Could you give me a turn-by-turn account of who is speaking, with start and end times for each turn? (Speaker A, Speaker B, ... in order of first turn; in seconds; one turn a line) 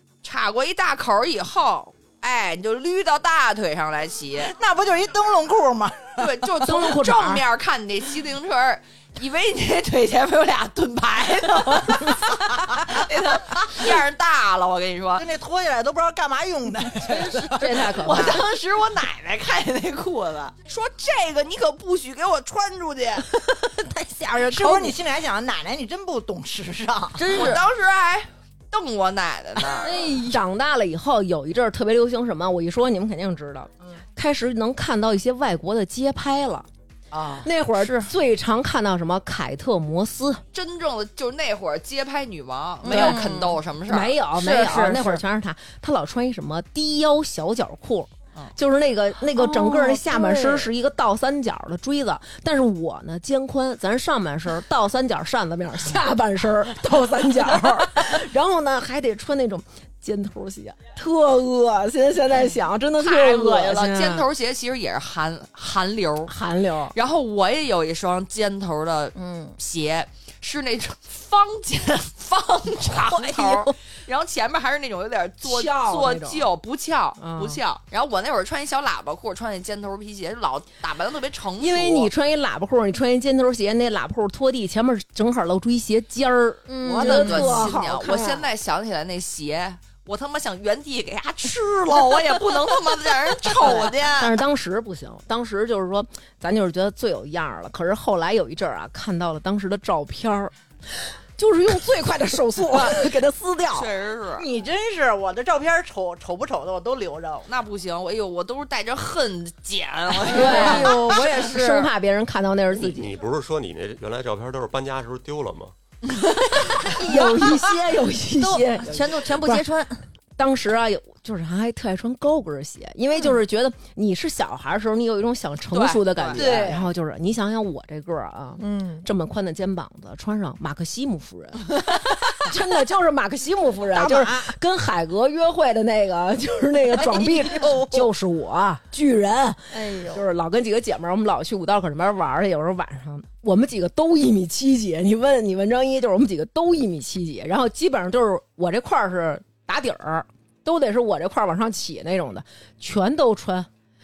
Speaker A: 0.2-4.5
Speaker B: 4.4-6.3
Speaker A: 6.2-15.2
Speaker C: 6.6-7.4
Speaker B: 15.2-17.7
Speaker A: 17.1-23.2
Speaker C: 17.5-18.4
Speaker D: 23.3-25.0
Speaker B: 24.4-27.5
Speaker D: 27.1-27.6
Speaker A: 27.3-30.0
Speaker D: 29.8-30.4
Speaker C: 29.9-36.7
Speaker B: 37.1-37.5
Speaker C: 37.4-40.4
Speaker D: 37.8-38.1
Speaker A: 40.5-44.1
Speaker D: 42.8-43.6
Speaker C: 42.9-43.2
Speaker C: 43.9-64.2
Speaker D: 44.3-45.2
Speaker D: 49.3-50.7
Speaker A: 63.0-66.3
Speaker C: 66.3-66.9
Speaker A: 66.9-82.1
Speaker C: 69.2-69.5
Speaker D: 73.1-73.8
Speaker C: 75.4-76.4
Speaker C: 77.2-77.6
Speaker C: 81.6-88.4
Speaker D: 86.7-87.7
Speaker A: 86.8-94.4
Speaker C: 93.6-100.5
Speaker C: 101.4-103.9
Speaker A: 103.7-104.5
Speaker B: 104.3-107.5
Speaker A: 107.4-111.9
Speaker D: 110.2-111.9
Speaker C: 110.3-113.1
Speaker E: 112.8-115.7
Speaker C: 116.5-119.7
Speaker D: 117.0-117.6
Speaker D: 118.4-120.0
Speaker C: 120.4-153.7
Speaker A: 125.7-126.6
Speaker B: 126.3-126.9
Speaker B: 128.6-129.1
Speaker B: 133.9-134.5
Speaker D: 137.1-137.8
Speaker B: 137.1-137.8
Speaker D: 139.7-140.2